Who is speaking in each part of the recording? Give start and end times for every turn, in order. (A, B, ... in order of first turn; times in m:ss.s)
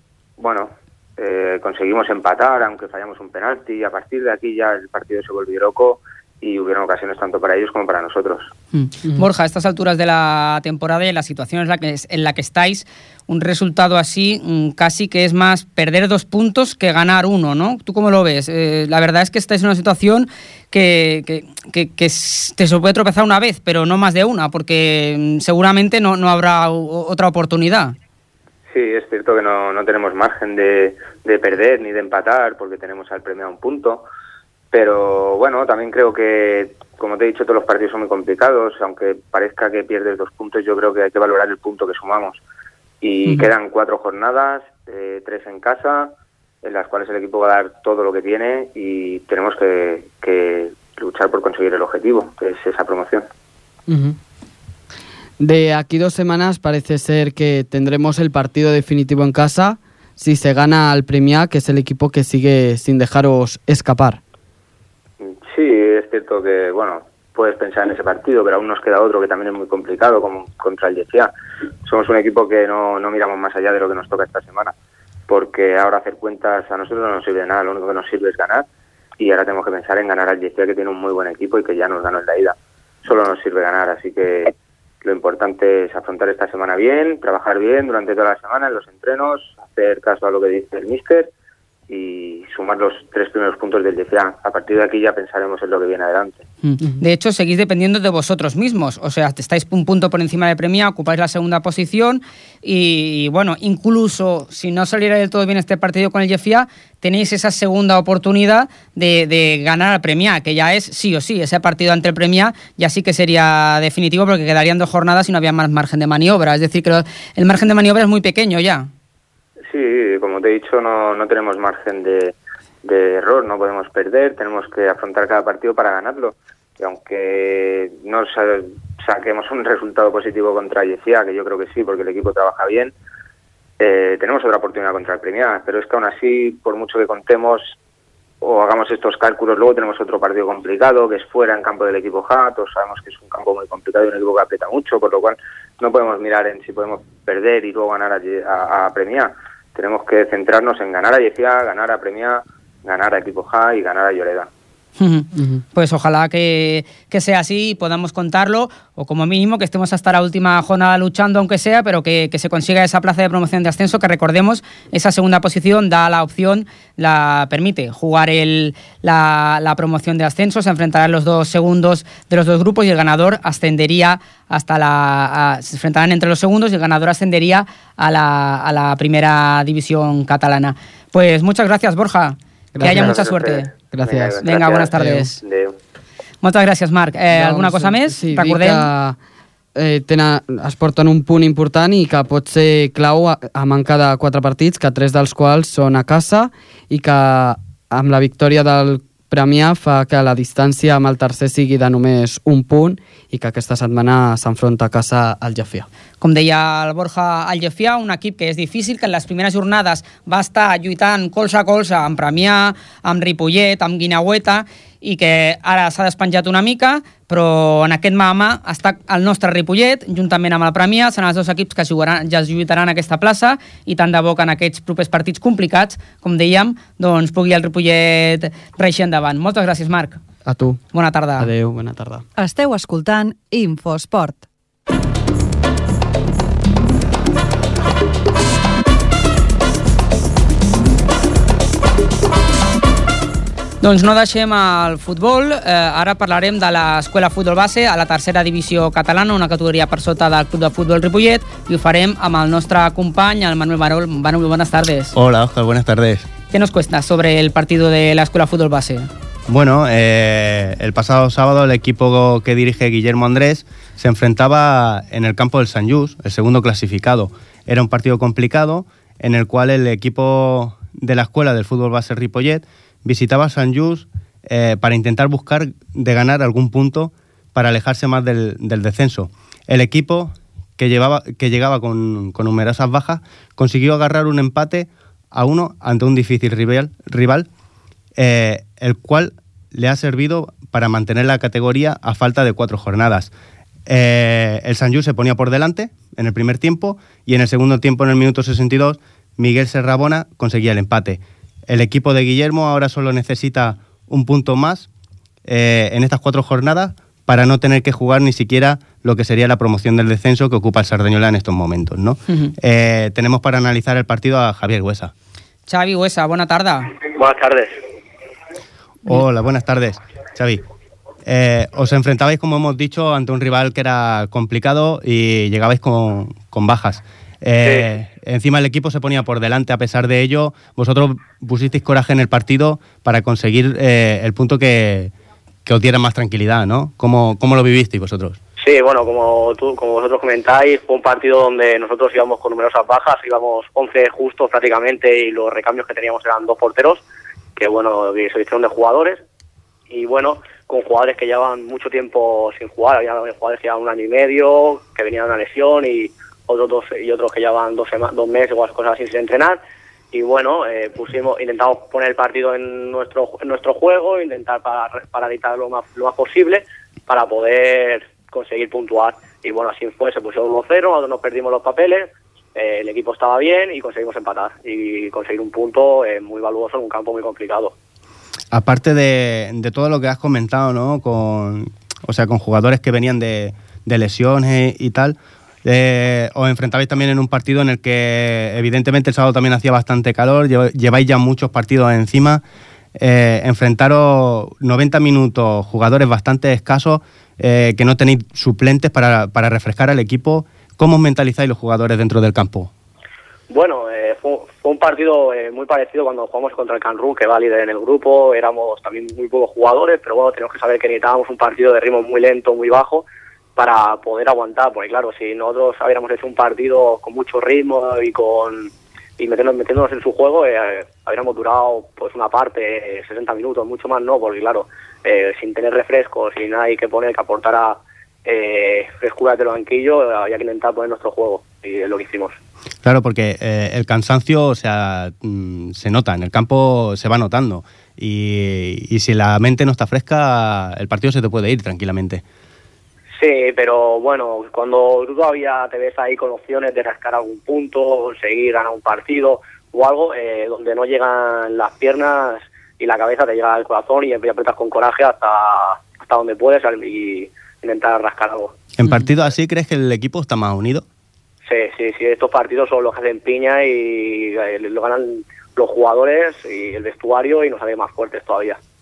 0:00.4-0:08.5 A
0:08.7-0:28.0 B
0:28.7-0:34.0 A
0:34.7-0:42.4 A
0:43.0-0:53.3 A
0:53.9-0:54.2 C
0:55.4-1:04.2 C
1:05.2-1:11.3 A
1:11.8-1:14.7 A
1:15.3-1:18.6 A
1:19.2-1:31.3 A
1:31.9-1:36.4 A
1:36.6-1:58.9 B
1:59.7-2:12.9 A
2:13.8-2:17.8 A
2:18.4-2:34.5 A
2:35.0-3:03.7 B
3:02.8-3:03.2 C
3:02.8-3:05.8 A
3:03.9-3:04.4 C
3:04.4-3:05.4 B
3:04.9-3:05.3 C
3:06.4-3:08.9 B
3:07.3-3:09.2 C
3:09.8-3:25.9 C
3:26.2-3:50.2 B
3:50.4-3:50.8 C
3:50.9-3:51.5 B
3:51.4-3:52.2 C
3:52.4-3:54.4 D
4:03.8-4:15.1 B
4:15.1-4:16.3 E
4:16.5-4:19.1 B
4:19.5-4:47.5 E
4:48.2-4:53.3 E
4:53.9-5:04.9 E
5:05.5-5:15.1 E
5:15.7-5:16.9 B
5:17.1-5:17.7 F
5:19.0-5:20.6 E
5:21.3-5:35.1 E
5:27.6-5:27.9 F
5:35.6-5:38.4 E
5:38.6-5:47.0 F
5:47.6-5:49.2 F
5:49.9-5:59.6 F
6:00.1-6:17.7 F
6:18.5-6:32.4 E
6:33.0-6:42.7 E
6:43.5-6:53.0 F
6:53.6-7:12.4 F
7:12.8-7:22.2 E
7:23.2-7:38.5 F
7:38.8-7:40.8 E
7:41.5-7:48.6 F